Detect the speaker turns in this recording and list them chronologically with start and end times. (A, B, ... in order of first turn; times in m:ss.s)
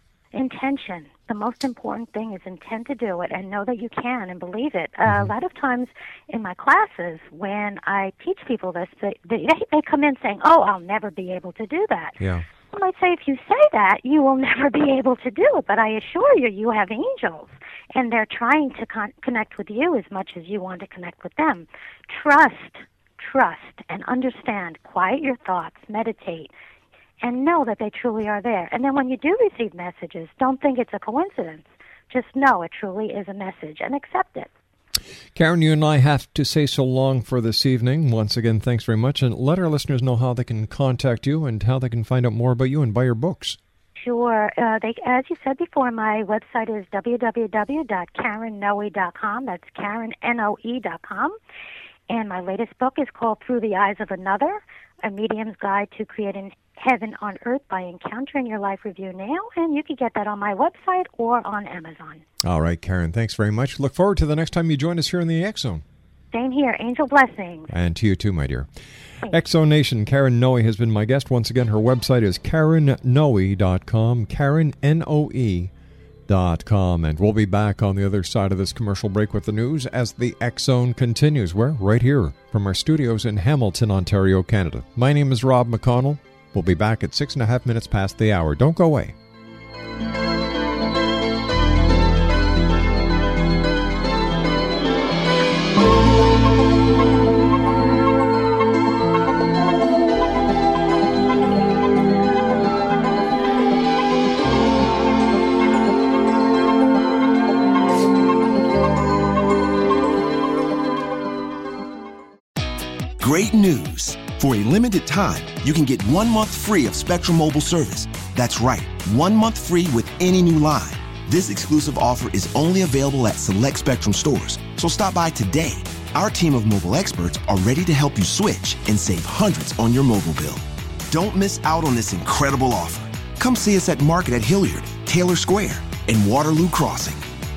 0:00.3-0:12.2 A
0:05.0-0:05.3 B
0:12.2-0:12.4 B
0:12.7-0:26.5 A
0:27.2-0:34.5 A
0:35.3-0:43.6 B
0:44.0-0:51.4 A
0:52.1-1:02.2 A
1:02.4-1:05.8 B
1:06.3-1:07.7 A
1:07.7-1:08.7 B
1:09.3-1:15.7 B
1:16.3-1:29.2 B
1:53.2-2:17.2 C